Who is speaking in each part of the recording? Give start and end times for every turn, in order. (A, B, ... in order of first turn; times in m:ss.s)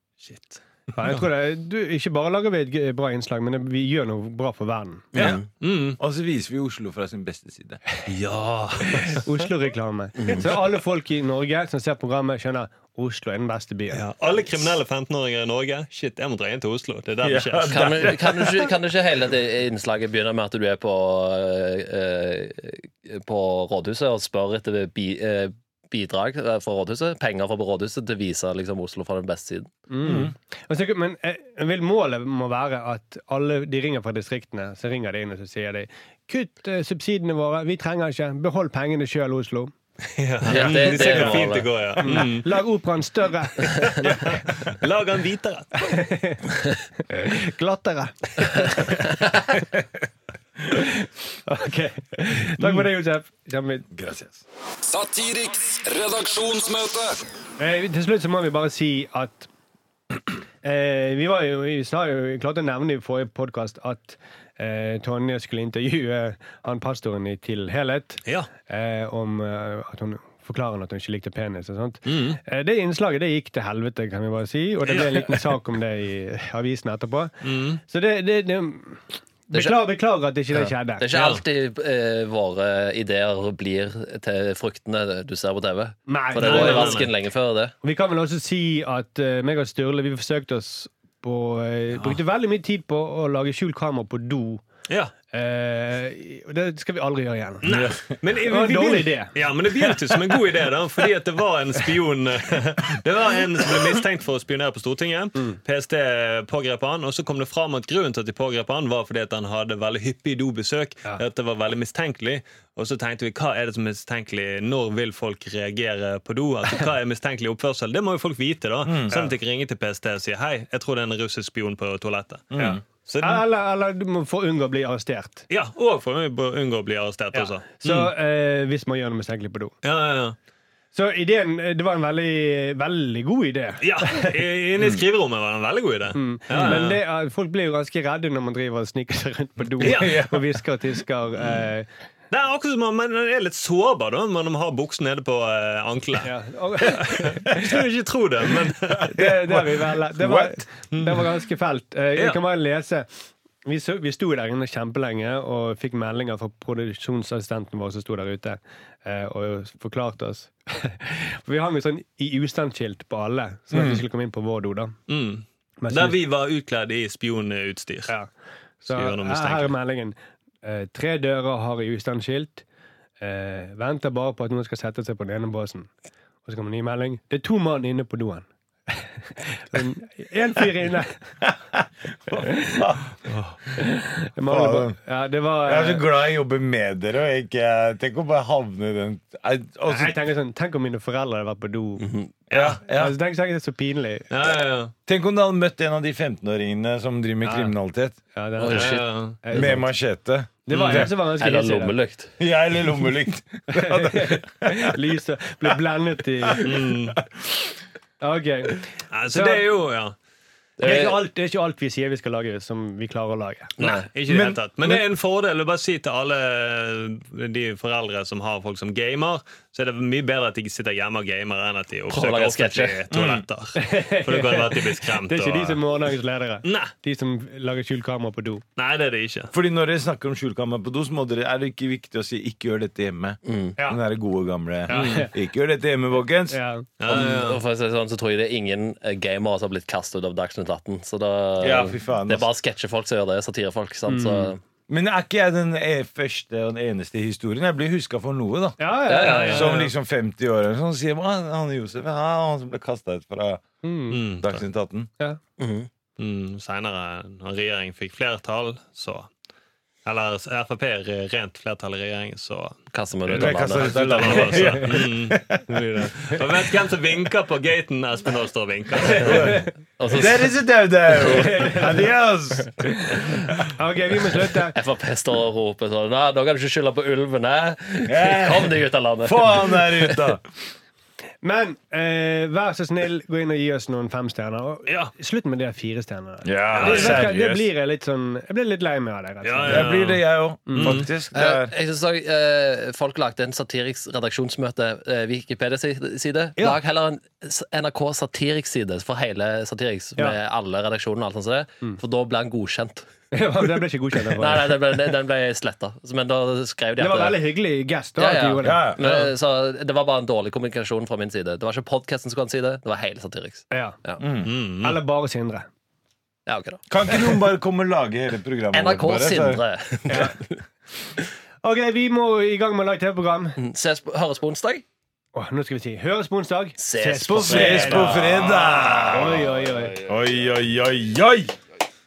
0:00.2-0:01.2 A
0:00.9-0:05.1 B
0:05.1-0:05.4 C
0:05.1-0:06.0 A
0:06.0-0:07.8 D
0:08.0-0:09.3 A
0:08.8-0:14.0 B
0:10.2-0:10.5 C
0:13.9-0:18.4 A
0:17.2-0:18.7 D
0:17.7-0:29.7 C
0:29.9-0:39.7 B
0:30.0-0:30.3 D
0:40.1-0:42.6 A
0:40.4-0:41.5 D
0:40.4-0:41.7 C
0:42.0-0:44.2 B
0:43.8-0:45.7 A
0:45.8-0:46.5 B
0:47.1-0:49.2 B
0:50.7-0:53.9 B
0:52.6-0:52.8 D
0:53.9-0:54.4 D
0:54.8-0:57.2 E
0:57.6-0:59.5 B
1:00.6-1:21.0 B
1:12.0-1:12.4 A
1:14.9-1:15.4 A
1:17.4-1:17.8 A
1:19.5-1:19.8 C
1:20.5-1:27.7 C
1:21.1-1:21.4 A
1:26.1-1:27.1 B
1:26.4-1:27.1 A
1:27.8-1:34.6 B
1:34.9-1:35.1 A
1:35.3-1:37.6 B
1:37.6-2:03.4 A
1:37.7-1:38.2 D
1:38.4-1:39.4 B
1:58.8-1:59.2 D
2:02.5-2:02.8 D
2:02.6-2:05.4 B
2:05.5-2:08.1 A
2:07.3-2:09.7 B
2:09.8-2:10.4 A
2:10.9-2:14.3 B
2:13.8-2:17.0 A
2:16.1-2:21.9 B
2:16.5-2:16.8 D
2:19.8-2:20.4 D
2:19.8-2:20.3 A
2:22.3-2:29.2 A
2:26.2-2:27.7 B
2:29.0-2:30.5 D
2:29.1-2:33.1 B
2:33.6-2:45.0 B
2:43.7-2:44.0 D
2:45.1-2:48.1 A
2:45.8-2:46.2 B
2:48.8-2:49.7 A
2:48.8-2:52.6 B
2:53.2-2:55.9 B
2:56.4-3:01.2 B
3:01.4-3:03.1 D
3:02.4-3:02.8 B
3:03.7-3:06.0 B
3:04.4-3:05.0 D
3:05.6-3:10.2 D
3:09.9-3:12.0 B
3:12.0-3:12.3 C
3:12.5-3:12.8 A
3:12.5-3:13.1 D
3:12.9-3:14.3 B
3:14.3-3:14.9 A
3:15.1-3:18.2 D
3:17.4-3:17.7 B
3:18.3-3:19.9 B
3:18.6-3:19.0 C
3:18.7-3:19.4 A
3:19.5-3:21.1 D
3:20.6-3:21.9 B
3:20.7-3:21.1 A
3:21.4-3:22.3 C
3:22.4-3:25.0 D
3:23.7-3:26.8 B
3:26.4-3:27.1 D
3:26.6-3:27.2 A
3:28.2-3:29.6 B
3:29.1-3:30.1 A
3:30.8-3:31.2 C
3:30.8-3:33.7 B
3:33.8-3:34.0 C
3:33.8-3:45.8 A
3:34.3-3:35.0 D
3:42.1-3:43.0 C
3:43.1-3:43.4 D
3:43.8-3:48.6 B
3:46.6-3:46.9 A
3:48.8-3:49.5 A
3:49.5-3:57.4 D
3:53.4-3:53.8 C
3:54.9-3:55.3 B
3:54.9-3:55.3 A
3:56.5-3:56.9 B
3:57.0-3:57.6 A
3:57.1-4:04.6 C
4:01.6-4:02.5 D
4:04.1-4:04.5 B
4:04.9-4:13.6 D
4:08.8-4:09.9 B
4:09.1-4:09.8 C
4:09.2-4:09.9 A
4:13.8-4:14.2 B
4:14.1-4:14.6 A
4:14.4-4:15.1 D
4:15.6-4:15.9 C
4:16.2-4:19.3 A
4:20.0-4:22.8 A
4:22.9-4:24.6 C
4:23.3-4:26.0 D
4:23.3-4:29.6 A
4:24.5-4:24.9 B
4:29.1-4:29.7 B
4:29.1-4:33.7 D
4:30.0-4:30.5 C
4:31.2-4:32.0 B
4:32.8-4:34.8 B
4:34.7-4:40.2 C
4:38.0-4:40.5 D
4:41.4-4:49.9 B
4:44.8-4:45.1 A
4:46.4-4:47.7 D
4:46.7-4:47.3 A
4:49.4-4:51.1 A
4:49.6-4:51.7 D
4:50.7-4:51.0 B
4:51.3-5:03.1 C
5:03.3-5:04.8 B
5:04.3-5:07.4 C
5:07.0-5:09.2 B
5:08.2-5:14.2 C
5:08.6-5:09.0 D
5:13.7-5:14.0 B
5:14.2-5:14.5 D
5:14.4-5:15.0 A
5:14.8-5:15.7 B
5:16.5-5:17.3 C
5:16.9-5:19.6 D
5:18.7-5:20.6 C
5:20.1-5:20.3 B
5:21.6-5:23.6 B
5:23.6-5:24.8 C
5:25.3-5:30.0 B
5:26.8-5:29.2 C
5:27.4-5:29.5 D
5:28.3-5:28.9 A
5:30.0-5:31.5 D